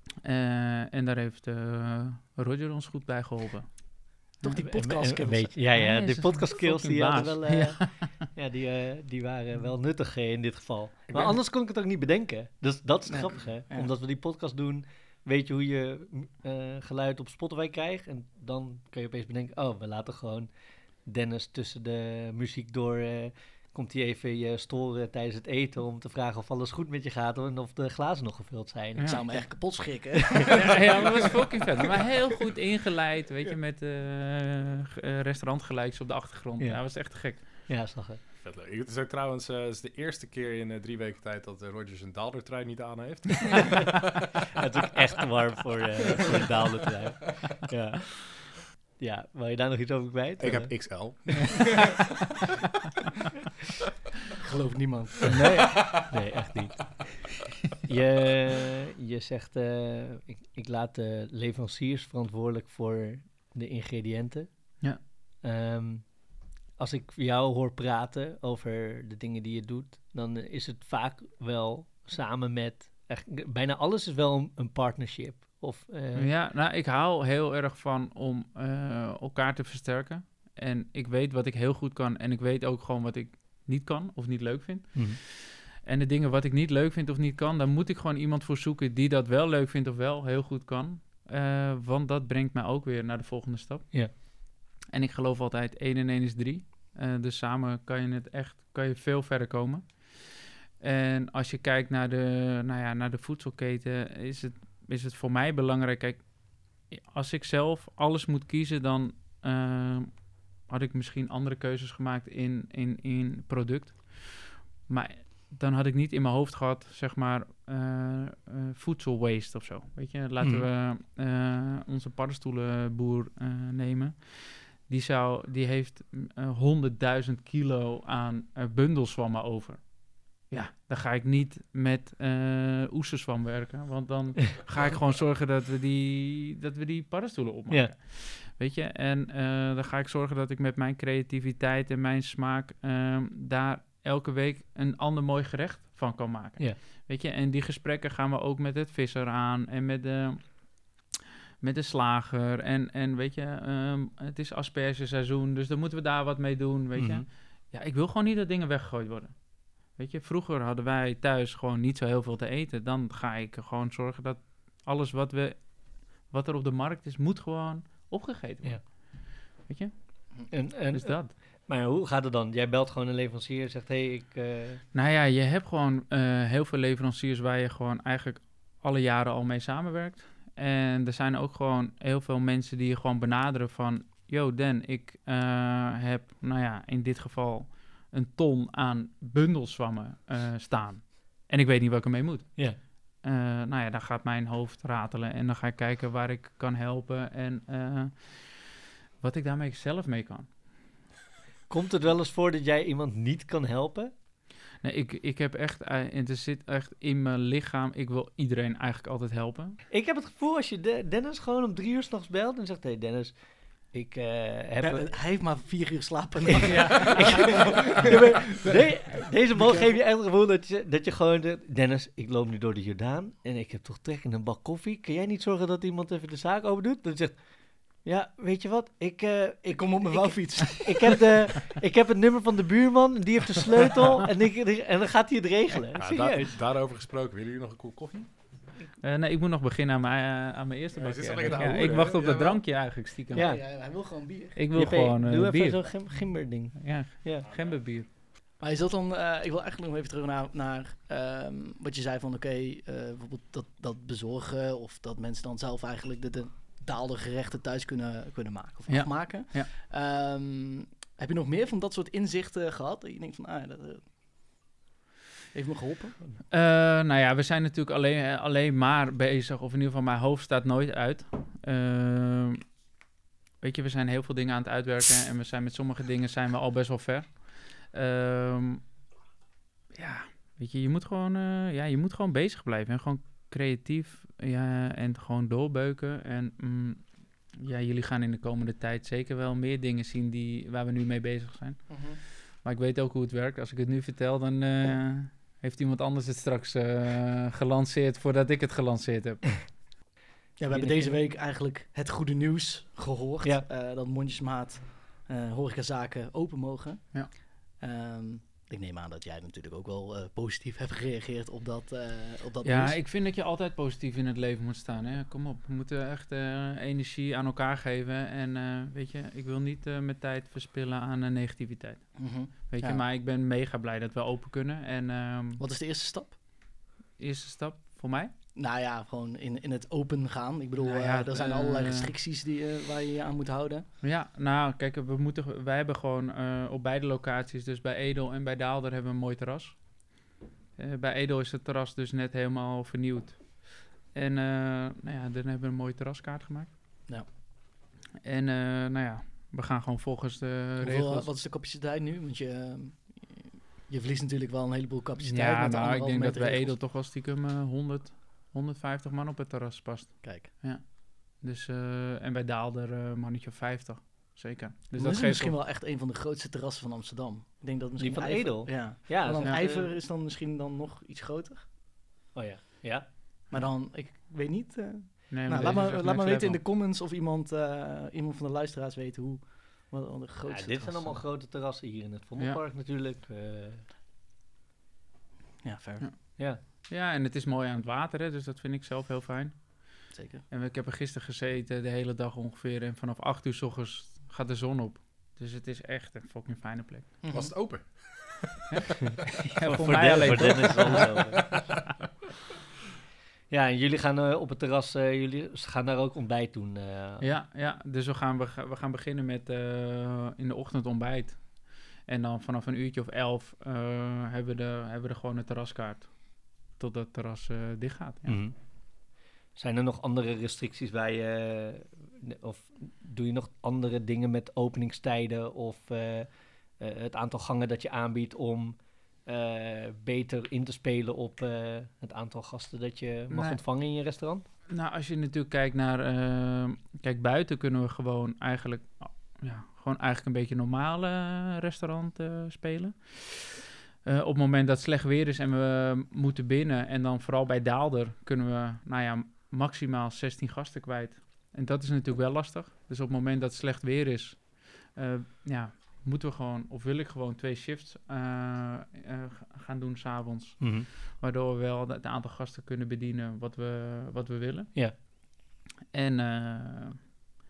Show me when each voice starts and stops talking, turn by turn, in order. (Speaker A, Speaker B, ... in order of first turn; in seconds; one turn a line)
Speaker A: 0.2-4.5
Speaker B: 4.4-5.5
Speaker C: 4.6-30.6
Speaker A: 5.7-8.1
Speaker D: 11.1-11.4
Speaker B: 13.1-13.9
Speaker A: 28.9-29.4
Speaker B: 29.0-31.3
Speaker A: 30.5-37.6
Speaker C: 36.6-38.2
Speaker D: 38.4-43.9
Speaker C: 44.6-51.3
Speaker D: 50.4-52.0
Speaker B: 54.4-55.7
Speaker C: 55.4-57.3
Speaker C: 57.8-64.9
Speaker C: 65.4-76.3
Speaker A: 76.1-94.4
Speaker A: 94.9-171.3
Speaker C: 120.4-120.7
Speaker C: 156.9-157.2
Speaker C: 170.5-174.8
Speaker A: 174.9-200.5
Speaker C: 201.7-204.1
Speaker A: 204.8-209.8
Speaker C: 209.9-215.1
Speaker B: 214.8-219.9
Speaker C: 216.5-236.5
Speaker B: 229.6-231.3
Speaker D: 235.9-238.3
Speaker A: 239.0-243.8
Speaker D: 240.9-242.6
Speaker C: 243.3-243.7
Speaker B: 243.3-244.6
Speaker A: 244.5-248.1
Speaker C: 244.7-247.5
Speaker B: 248.6-264.1
Speaker A: 258.9-259.7
Speaker B: 265.5-266.2
Speaker A: 266.5-272.7
Speaker A: 273.6-278.9
Speaker A: 279.9-299.8
Speaker B: 291.9-292.2
Speaker B: 300.6-313.0
Speaker C: 300.7-301.3
Speaker A: 312.6-325.6
Speaker B: 322.1-323.1
Speaker B: 325.6-326.4
Speaker A: 327.2-328.3
Speaker B: 328.5-333.9
Speaker A: 330.8-332.1
Speaker A: 334.0-347.2
Speaker A: 348.2-351.3
Speaker B: 350.8-356.8
Speaker A: 355.2-365.6
Speaker B: 360.2-360.5
Speaker B: 364.9-371.7
Speaker C: 368.0-369.9
Speaker C: 372.3-373.1
Speaker B: 373.5-381.2
Speaker A: 375.3-376.6
Speaker C: 380.5-383.8
Speaker B: 385.6-386.1
Speaker A: 386.0-397.1
Speaker B: 390.1-390.4
Speaker B: 397.2-397.5
Speaker D: 397.3-398.6
Speaker A: 399.4-401.5
Speaker C: 399.6-401.5
Speaker C: 403.5-407.3
Speaker A: 407.2-418.4
Speaker C: 418.3-434.5
Speaker A: 433.3-433.6
Speaker A: 434.7-465.1
Speaker C: 460.6-460.9
Speaker A: 465.9-467.1